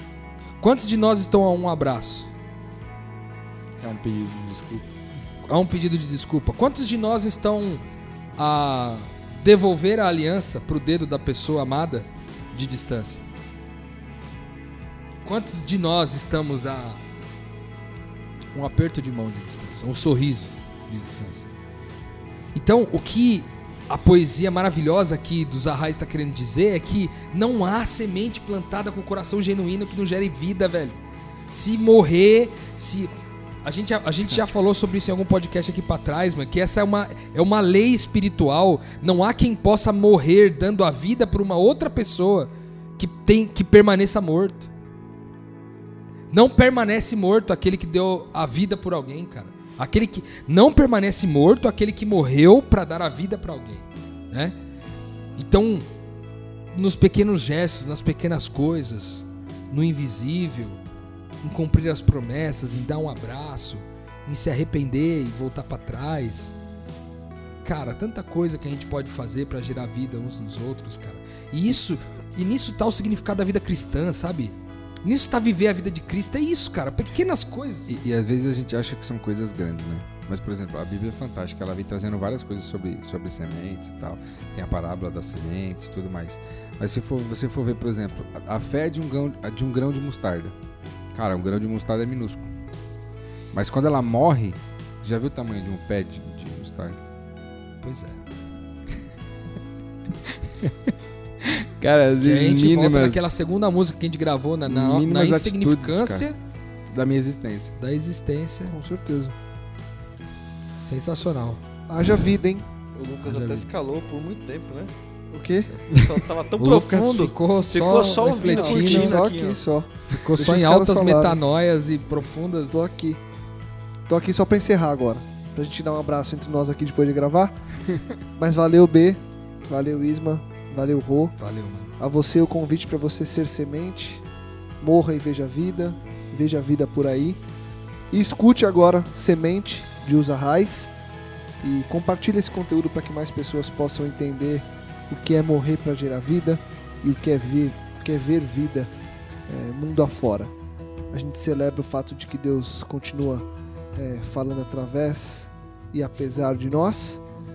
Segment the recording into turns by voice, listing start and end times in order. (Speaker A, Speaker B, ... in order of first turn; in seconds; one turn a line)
Speaker A: 0.6-2.3
Speaker B: 3.8-4.9
Speaker A: 5.4-7.8
Speaker A: 8.4-13.2
Speaker A: 15.2-17.0
Speaker A: 18.5-21.5
Speaker A: 22.5-31.0
Speaker A: 31.5-33.1
Speaker A: 33.6-44.7
Speaker A: 46.3-54.5
Speaker A: 55.4-55.9
Speaker A: 56.7-60.8
Speaker A: 61.4-66.5
Speaker A: 67.6-77.9
Speaker C: 77.9-90.6
Speaker C: 91.1-92.5
Speaker C: 93.5-97.0
Speaker A: 97.8-98.2
Speaker C: 101.4-103.2
Speaker A: 102.2-106.4
Speaker C: 104.7-106.3
Speaker C: 106.9-107.8
Speaker A: 107.8-108.8
Speaker D: 108.7-109.4
Speaker A: 110.8-111.6
Speaker D: 111.9-112.7
Speaker B: 112.9-114.9
Speaker A: 113.3-113.7
Speaker D: 115.3-115.7
Speaker B: 115.8-119.6
Speaker A: 116.6-119.2
Speaker D: 118.3-121.4
Speaker A: 120.1-123.0
Speaker D: 122.7-123.2
Speaker D: 124.1-127.5
Speaker D: 128.4-131.3
Speaker A: 131.4-131.9
Speaker D: 132.0-134.2
Speaker D: 134.8-137.4
Speaker D: 138.1-140.9
Speaker D: 141.6-148.9
Speaker D: 149.5-150.5
Speaker D: 151.1-157.2